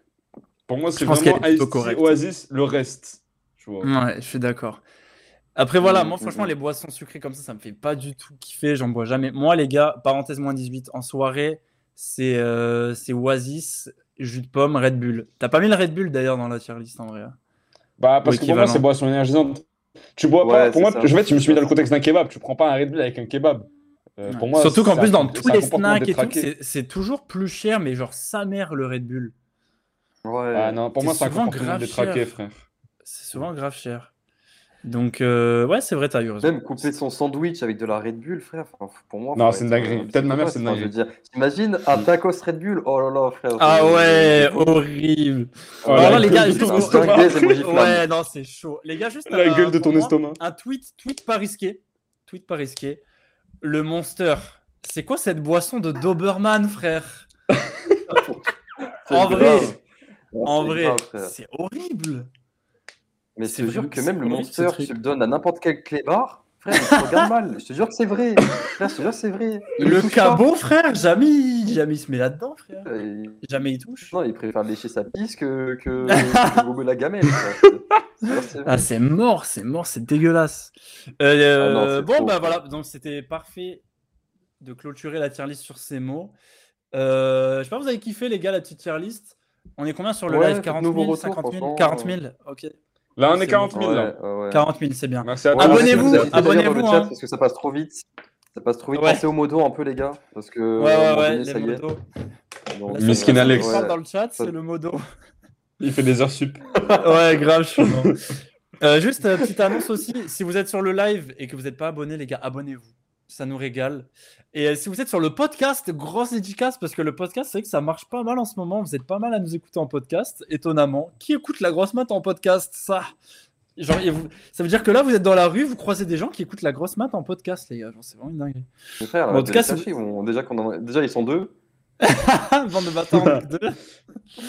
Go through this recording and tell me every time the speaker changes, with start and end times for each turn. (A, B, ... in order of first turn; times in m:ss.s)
0:00.7-0:03.9 A
0:01.0-0:02.2 B
0:03.8-0:04.8 B
0:05.6-0:17.4 B
0:05.8-0:06.5 C
0:18.0-0:19.6 A
0:18.2-0:18.8 B
0:20.2-0:26.5 A
0:20.4-0:21.7 C
0:24.3-0:29.3 B
0:30.2-0:30.8 C
0:30.5-0:32.7 A
0:31.0-0:32.3 B
0:33.0-0:34.1 B
0:34.8-0:36.9 B
0:36.4-0:44.8 C
0:39.4-0:40.9 A
0:43.6-0:53.0 B
0:45.8-0:48.0 C
0:45.9-0:47.6 A
0:49.3-0:50.4 A
0:53.6-0:57.3 B
0:58.1-0:58.4 C
0:59.1-0:59.8 C
0:59.1-0:59.8 B
1:00.3-1:01.3 C
1:00.4-1:02.3 B
1:03.4-1:10.4 C
1:03.4-1:04.9 B
1:06.8-1:07.2 B
1:09.8-1:12.9 B
1:12.9-1:13.4 C
1:13.4-1:14.2 B
1:14.1-1:18.8 C
1:16.1-1:16.6 B
1:18.6-1:23.8 B
1:21.6-1:22.6 C
1:24.6-1:26.3 B
1:26.9-1:32.7 B
1:30.3-1:32.2 C
1:33.2-1:34.1 A
1:33.3-1:33.8 B
1:33.7-1:34.7 C
1:34.5-1:37.1 B
1:35.2-1:36.4 A
1:35.5-1:41.8 C
1:39.0-1:39.2 B
1:40.8-1:42.0 B
1:42.7-1:44.5 C
1:42.8-1:45.0 B
1:43.0-1:43.8 A
1:45.8-1:46.7 A
1:46.8-1:47.2 C
1:47.0-1:48.2 B
1:48.8-2:03.1 B
2:03.8-2:08.7 B
2:09.0-2:11.5 C
2:09.3-2:09.9 B
2:12.0-2:13.8 B
2:13.1-2:13.4 A